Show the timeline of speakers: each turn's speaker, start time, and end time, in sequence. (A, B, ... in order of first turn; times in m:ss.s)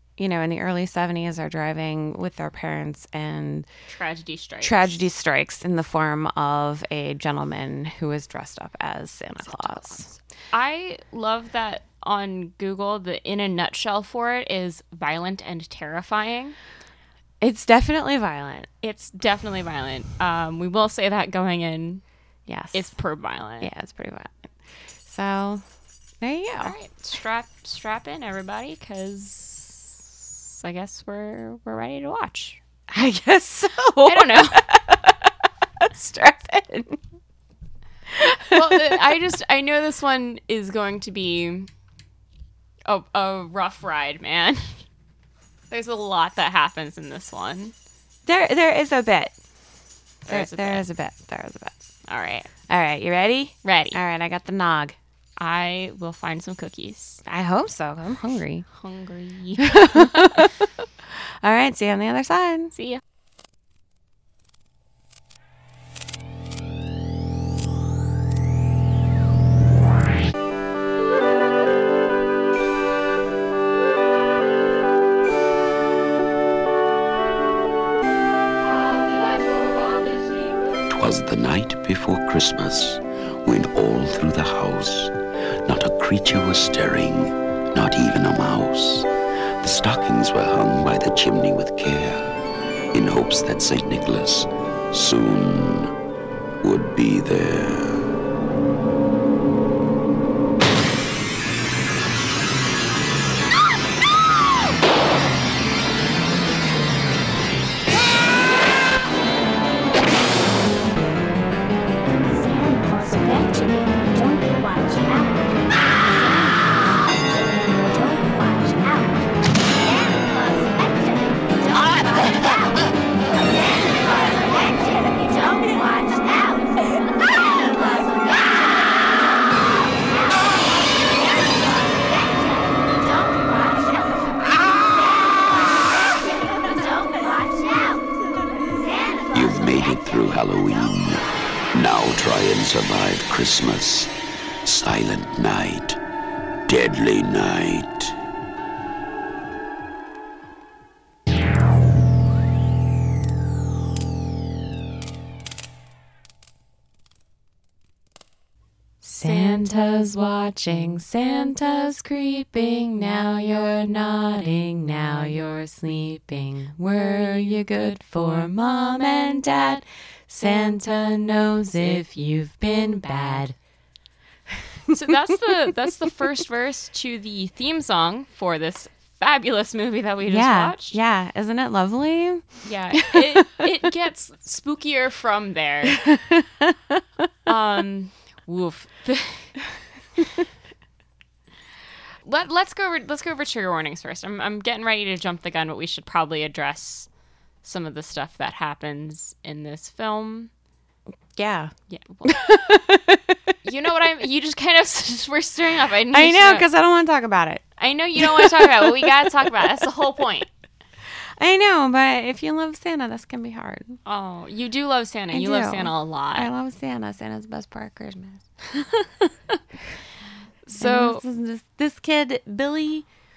0:00.2-0:03.7 A
0:03.9-0:05.0 B
0:04.6-0:10.1 A
0:09.4-0:16.6 B
0:17.4-0:18.7 A
0:18.8-0:22.0 B
0:22.5-0:22.9 A
0:22.7-0:23.7 B
0:23.6-0:24.5 A
0:25.0-0:25.6 A
0:26.2-0:26.8 A
0:26.6-0:32.6 B
0:32.9-0:35.3 A
0:34.0-0:34.7 B
0:35.8-0:37.0 A
0:38.1-0:39.0 A
0:38.4-0:41.7 B
0:42.8-0:44.8 B
0:45.7-0:47.7 B
0:48.3-0:49.4 A
0:50.2-0:50.8 B
0:50.3-0:51.9 A
0:52.1-0:52.5 B
0:52.7-0:55.0 A
0:53.6-0:54.0 B
0:55.4-0:57.2 B
0:57.2-0:58.7 A
0:58.7-1:00.5 B
0:59.6-1:02.7 A
1:02.7-1:03.0 B
1:20.9-1:25.1 C
1:25.6-1:29.1 C
1:29.6-1:32.3 C
1:32.9-1:35.9 C
1:36.6-1:38.1 C
1:52.5-1:55.4 D
1:57.8-1:59.1 D
2:19.3-2:24.1 C
2:24.6-2:26.0 C
2:26.7-2:28.2 C
2:39.0-2:53.6 A
2:54.9-2:55.4 A
2:54.9-3:01.0 B
3:00.3-3:03.7 A
3:02.6-3:06.0 B
3:05.9-3:07.3 A
3:07.5-3:09.6 B
3:12.2-3:17.1 B
3:17.6-3:20.5 B
3:21.4-3:21.7 A
3:21.9-3:22.4 B
3:22.2-3:23.5 A
3:23.6-3:26.7 B
3:26.1-3:27.6 A
3:27.8-3:30.5 B
3:28.2-3:29.6 A
3:31.4-3:34.0 A
3:34.0-3:36.5 B
3:35.3-3:38.9 A
3:40.7-3:41.2 B
3:40.8-3:43.1 A